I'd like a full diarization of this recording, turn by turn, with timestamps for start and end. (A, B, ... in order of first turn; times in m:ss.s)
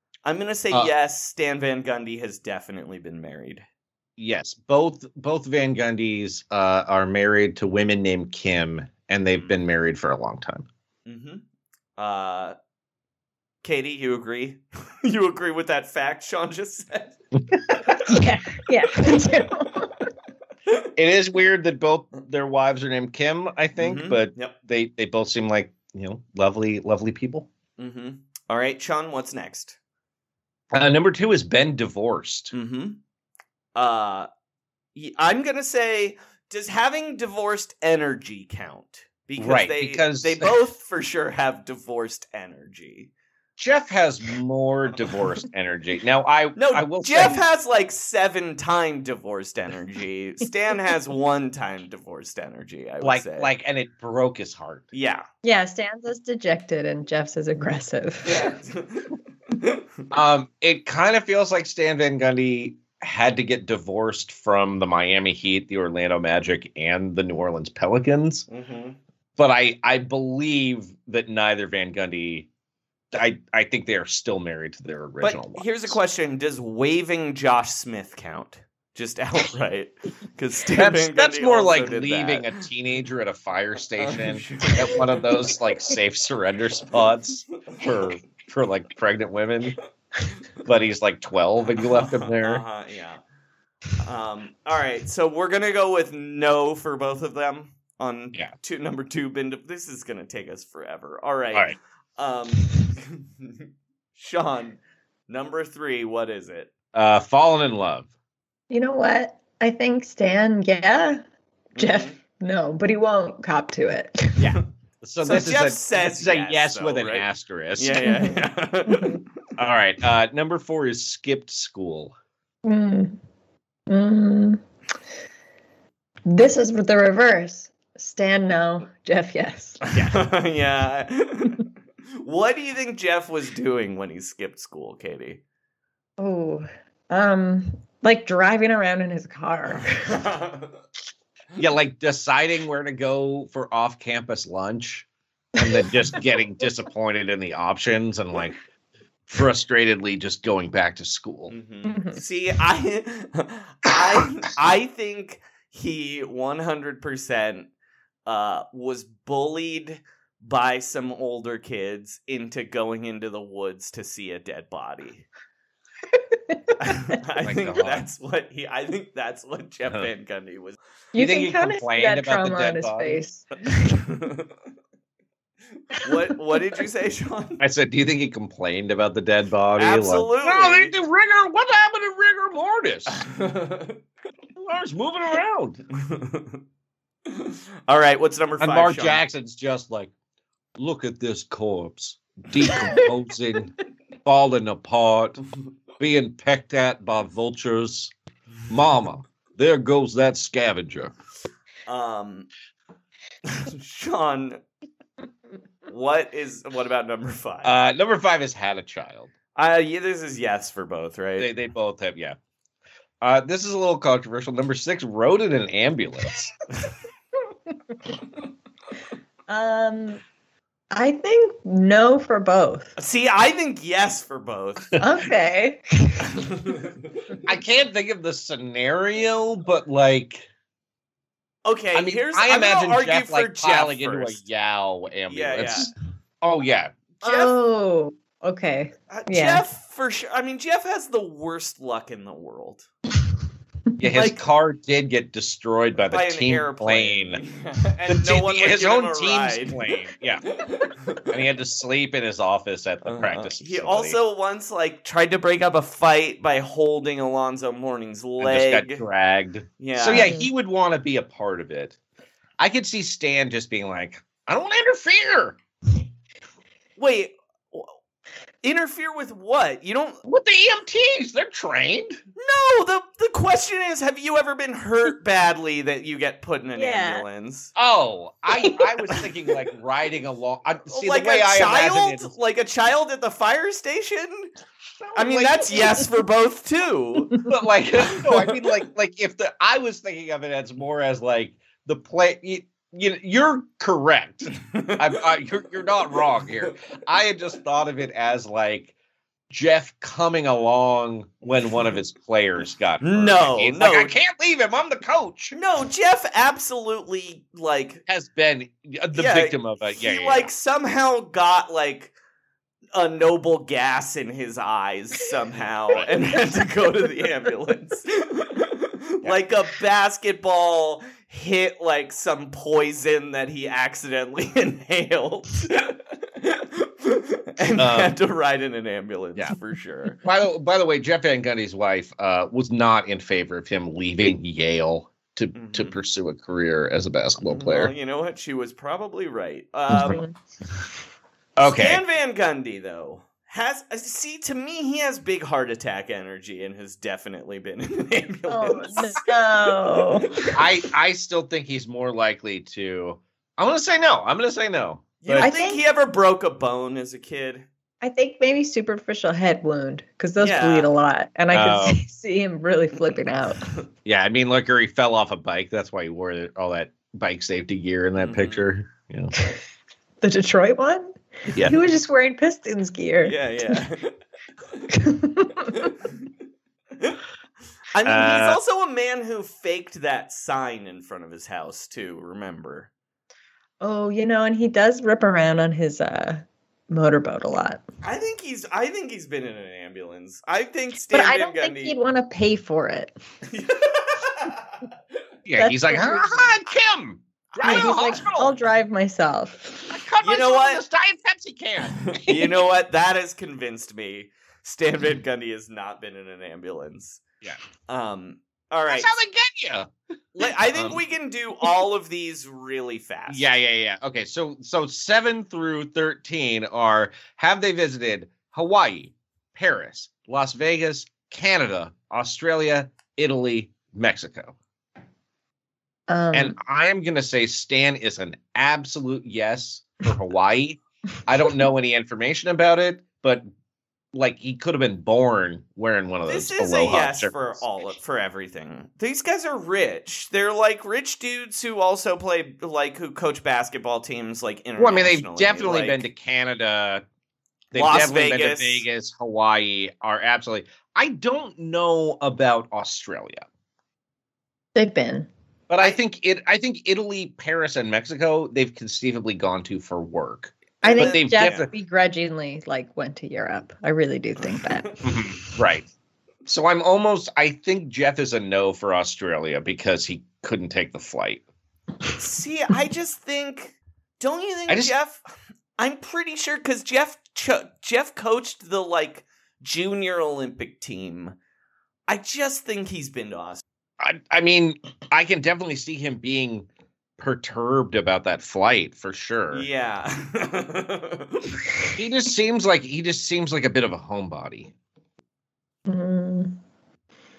0:00.2-0:03.6 A
0:04.2-0:10.6 B
0:11.0-0:11.4 A
0:12.0-0:12.5 A
0:13.6-0:17.2 A
0:17.3-0:17.6 B
0:18.0-0:19.9 C
0:21.0-0:27.5 B
0:23.8-0:24.6 A
0:27.8-0:29.8 A
0:30.7-0:32.5 B
0:32.5-0:33.0 A
0:33.7-0:34.3 A
0:34.9-0:43.1 A
0:39.4-0:40.5 B
0:43.6-0:47.4 B
0:46.6-0:53.5 A
0:53.0-0:54.9 B
0:54.9-0:55.2 A
0:55.4-0:58.4 C
0:58.2-0:59.1 A
1:00.1-1:08.4 B
1:08.5-1:09.0 A
1:09.4-1:12.5 B
1:13.1-1:16.0 B
1:15.2-1:22.6 A
1:20.7-1:29.8 B
1:24.0-1:25.2 A
1:30.6-1:32.6 B
1:31.9-1:33.2 A
1:34.0-1:46.7 A
1:46.9-1:48.1 B
1:48.7-1:51.2 C
1:51.8-1:52.1 A
1:51.8-1:54.4 C
1:54.4-1:58.1 B
1:55.2-1:57.2 A
1:57.8-1:59.2 A
1:58.0-1:58.4 C
1:58.9-1:59.2 C
1:59.6-2:02.1 B
2:02.6-2:03.2 C
2:03.9-2:04.6 C
2:06.3-2:09.8 C
2:10.0-2:11.6 A
2:12.2-2:15.4 A
2:16.2-2:20.1 C
2:20.1-2:20.8 A
2:21.6-2:28.6 B
2:29.3-2:31.5 B
2:31.5-2:37.7 A
2:31.8-2:32.2 C
2:38.2-2:45.2 A
2:46.8-2:50.8 A
2:47.4-2:48.1 B
2:51.1-2:53.8 C
2:51.1-2:53.2 B
2:55.9-2:57.6 A
2:57.6-3:03.2 B
2:59.8-3:00.9 A
3:03.1-3:04.0 A
3:04.6-3:05.8 B
3:06.0-3:06.6 A
3:07.3-3:09.2 A
3:08.6-3:10.1 B
3:10.8-3:13.7 B
3:14.2-3:15.4 B
3:16.0-3:18.1 B
3:18.7-3:21.1 B
3:21.9-3:22.5 A
3:23.5-3:24.6 A
3:25.9-3:27.8 A
3:27.6-3:29.3 B
3:29.6-3:31.5 A
3:31.4-3:32.4 B
3:33.2-3:36.5 B
3:39.5-3:40.2 C
3:40.9-3:42.9 C
3:43.0-3:45.0 A
3:45.0-3:46.3 C
3:46.6-3:46.9 A
3:47.4-3:50.5 B
3:51.6-3:54.4 A
3:51.9-3:56.9 B
3:55.3-3:55.9 A
3:57.2-3:57.5 A
3:57.2-3:59.6 C
3:59.1-4:02.9 A
4:04.0-4:07.4 B
4:04.1-4:04.4 A
4:06.1-4:09.9 A
4:08.0-4:10.4 B
4:10.6-4:11.2 A
4:11.3-4:14.2 B
4:13.0-4:19.0 A
4:18.4-4:22.0 B
4:19.8-4:20.3 A
4:20.1-4:20.5 C
4:22.6-4:25.6 B
4:27.0-4:27.9 A
4:28.6-4:30.2 A
4:30.2-4:32.2 B
4:32.4-4:37.7 A
4:36.7-4:37.2 C
4:37.7-4:42.3 B
4:38.6-4:39.2 C
4:40.9-4:44.5 A
4:45.0-4:46.0 B
4:45.1-4:47.3 A
4:47.4-4:58.9 B
4:48.1-4:48.6 A
4:54.6-4:55.1 A
4:56.1-4:56.7 A
4:59.5-5:05.6 B
5:01.7-5:01.9 A
5:03.0-5:04.1 A
5:05.5-5:08.0 A
5:08.0-5:10.5 B
5:09.1-5:12.1 A
5:12.9-5:30.2 A
5:27.8-5:28.1 B
5:30.2-5:37.9 B
5:35.5-5:36.0 A
5:37.4-5:40.2 A
5:39.9-5:40.3 C
5:41.6-5:42.0 B
5:41.6-5:49.1 A
5:48.5-5:50.5 C
5:50.5-5:55.5 B
5:55.2-5:57.6 A
5:55.4-5:55.8 C
5:58.0-6:03.6 C
6:00.4-6:00.9 A
6:01.5-6:02.0 B
6:04.0-6:09.3 B
6:08.2-6:08.6 A
6:10.2-6:13.4 C
6:11.5-6:11.8 A
6:13.2-6:14.1 A
6:14.9-6:15.9 C
6:17.9-6:22.9 A
6:18.0-6:18.6 B
6:23.8-6:27.8 C
6:28.0-6:32.0 A
6:31.1-6:33.1 C
6:33.5-6:34.8 A
6:35.4-6:38.6 B
6:35.6-6:36.5 C
6:37.5-6:38.3 A
6:37.6-6:39.8 C
6:39.9-6:42.2 B
6:40.2-6:40.8 A
6:42.1-6:47.2 A
6:47.9-6:49.2 A
6:48.9-6:49.9 B
6:50.3-6:53.4 A
6:50.7-6:51.0 B
6:53.3-7:04.5 B
7:06.1-7:06.5 C
7:06.3-7:13.5 B
7:14.1-7:17.6 B
7:16.3-7:26.0 A
7:24.8-7:27.0 B
7:27.7-7:33.4 B
7:27.7-7:28.8 A
7:34.8-7:35.3 C
7:35.7-7:41.7 B
7:40.8-7:41.7 A
7:40.8-7:45.0 C
7:44.4-7:45.0 A
7:45.0-7:45.8 B
7:46.4-7:51.4 B
7:52.2-7:55.2 A
7:54.7-7:54.9 B
7:55.8-8:01.3 A
8:02.1-8:03.6 A
8:04.0-8:06.7 B
8:07.2-8:09.7 B
8:09.5-8:11.4 A
8:12.0-8:14.7 B
8:15.8-8:16.6 C